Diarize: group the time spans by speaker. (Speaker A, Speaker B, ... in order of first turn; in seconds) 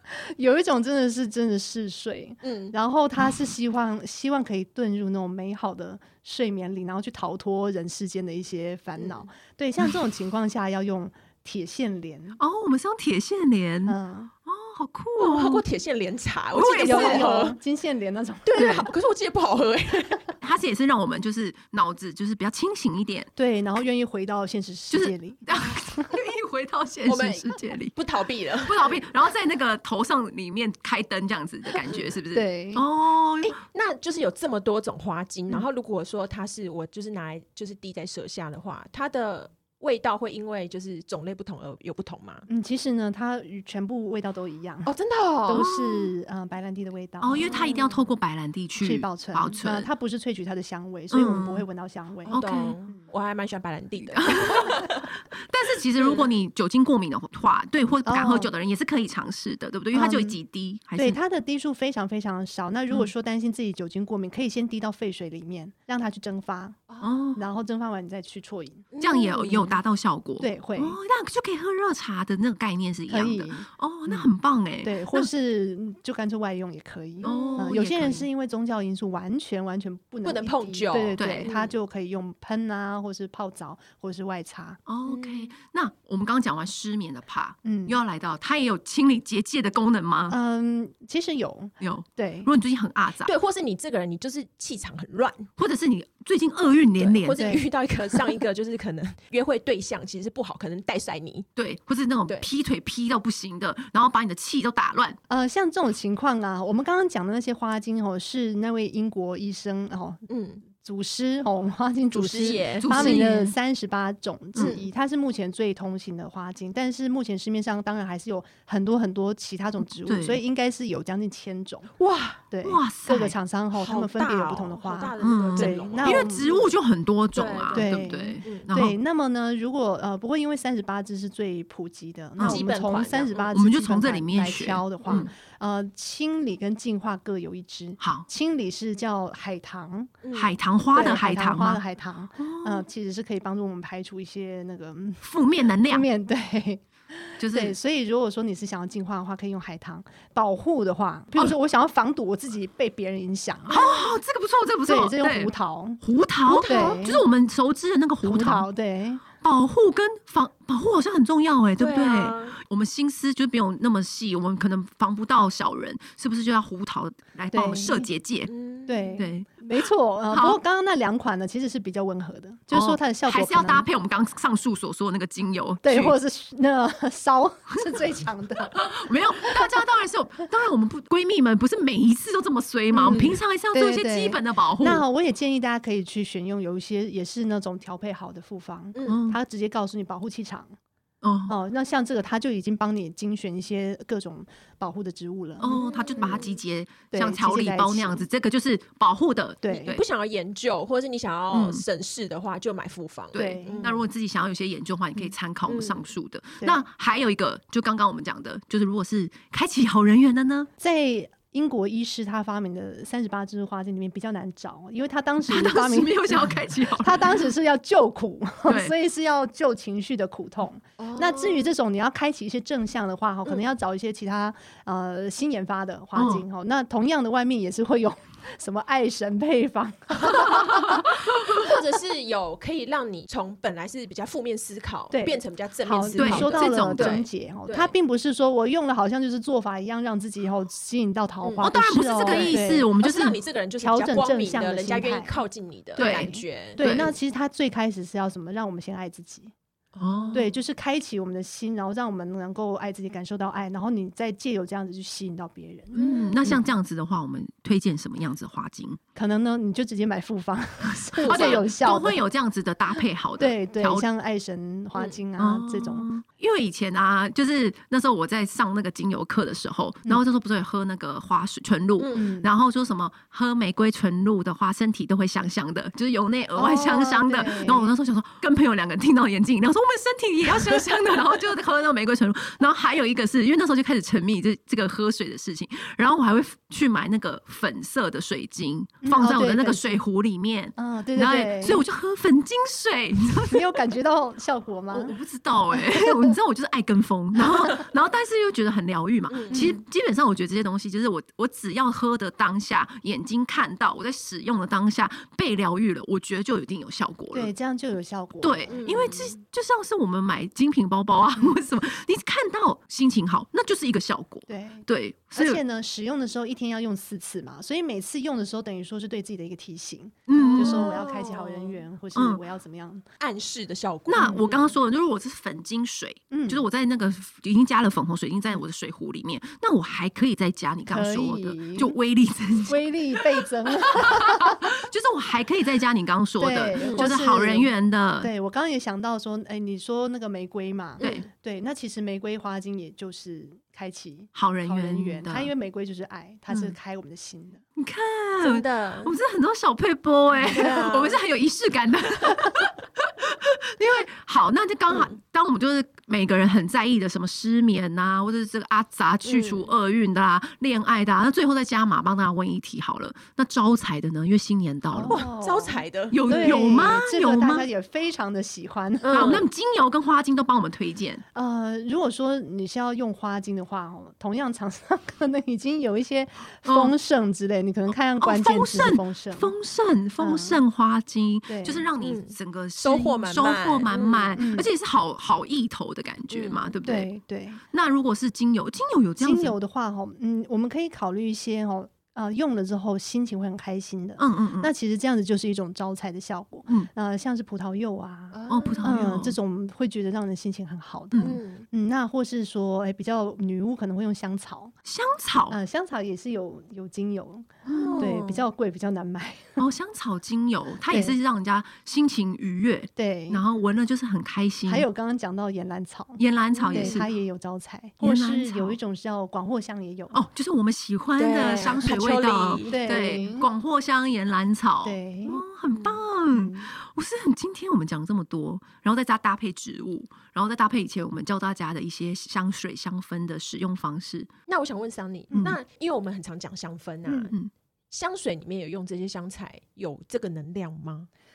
Speaker A: 0.2-12.4, 13.9-14.3, 16.8-18.5, 23.4-25.5, 32.3-32.9, 42.5-44.9, 45.5-47.8, 48.8-52.4, 58.0-58.5, 59.9-60.4, 61.0-68.9, 70.4-71.0, 73.1-74.3, 74.8-84.8, 87.6-88.0, 90.3-92.5, 97.4-97.7, 105.3-121.9, 122.5-126.5, 127.7-140.1, 140.9-145.2, 145.8-153.9, 154.9-157.2, 158.2-159.2, 167.5-168.1, 168.9-173.9, 175.8-178.9, 182.9-190.8, 191.5-196.4, 197.1-198.3, 199.6-200.0, 203.3-203.9, 210.8-230.8, 235.1-242.9, 243.8-245.4, 246.0-249.5, 250.3-256.6, 259.1-262.2, 263.4-266.1, 272.1-272.5, 276.6-277.9, 289.0-290.0, 290.8-291.8, 293.5-295.2, 295.8-296.4, 299.5-299.8, 307.3-308.8, 314.5-323.1, 324.2-324.5, 326.3-326.6, 330.9-332.0, 332.7-334.6, 336.4-347.6, 350.5-351.0, 364.9-369.4, 371.4-379.5, 380.2-380.6, 381.5-381.9, 384.4-384.7, 386.8-387.6, 389.2-404.8, 405.5-409.6, 410.9-411.2, 413.0-413.4, 414.7-420.2, 422.7-423.5, 424.8-425.4, 426.3-426.7, 437.1-437.3
Speaker B: 2.4-2.8, 9.0-9.3, 15.2-17.6, 18.4-20.3, 27.1-29.0, 33.4-42.5, 44.9-45.7, 47.5-47.8, 52.3-55.1, 56.0-56.3, 68.9-69.8, 77.2-77.8, 80.2-81.7, 85.1-85.5, 93.2-95.5, 97.0-101.5, 110.3-110.6, 112.1-113.3, 114.6-114.8, 122.0-122.4, 123.8-126.7, 127.3-128.7, 132.4-133.5, 140.2-140.5, 153.7-154.1, 156.6-156.9, 161.8-162.6, 168.5-169.2, 183.0-183.4, 195.6-196.6, 199.7-204.0, 205.7-206.0, 221.0-221.7, 230.3-237.9, 242.3-246.8, 250.0-250.5, 255.9-256.4, 261.2-261.6, 272.0-272.3, 299.3-299.7, 308.7-309.4, 320.3-321.8, 323.2-324.7, 336.8-337.1, 341.0-341.3, 348.4-349.1, 350.5-351.2, 354.9-355.2, 359.3-359.7, 365.1-366.7, 369.0-369.5, 382.0-384.4, 386.3-386.7, 398.3-399.0, 401.2-401.7, 407.7-408.4, 416.5-417.1, 421.2-422.8, 425.7-426.0, 434.5-437.3, 437.9-441.1
Speaker C: 12.4-15.6, 16.5-17.4, 18.6-18.9, 20.4-23.3, 24.9-27.9, 28.6-33.6, 45.6-46.1, 47.2-49.9, 51.1-51.6, 52.3-52.8, 54.1-61.2, 67.0-67.4, 69.0-75.3, 77.2-78.3, 81.2-81.5, 84.9-90.4, 91.8-93.3, 95.6-97.4, 101.6-105.2, 112.8-113.5, 120.0-120.4, 122.6-123.4, 125.2-129.0, 132.4-132.6, 133.5-135.3, 138.0-138.3, 140.3-141.8, 142.4-142.8, 145.2-146.1, 147.4-147.8, 153.7-158.7, 159.4-168.5, 169.2-169.5, 170.3-170.6, 172.7-176.2, 178.7-185.0, 189.1-189.4, 191.2-191.6, 195.6-200.0, 201.5-201.8, 203.4-210.7, 215.5-217.3, 218.7-218.9, 226.2-226.4, 236.2-237.2, 241.6-243.4, 246.0-247.2, 250.0-250.4, 255.9-259.0, 261.2-264.1, 265.4-293.7, 294.9-307.5, 308.4-315.6, 320.3-321.0, 322.1-322.4, 324.1-332.8, 333.4-338.3, 344.4-345.5, 346.5-346.8, 347.8-365.3, 366.1-367.7, 369.1-371.2, 376.6-376.9, 378.2-387.1, 387.7-389.6, 394.2-394.7, 398.5-399.4, 401.1-401.4, 404.9-405.6, 407.7-408.1, 409.6-414.9, 416.2-417.1, 418.0-418.8, 420.1-434.3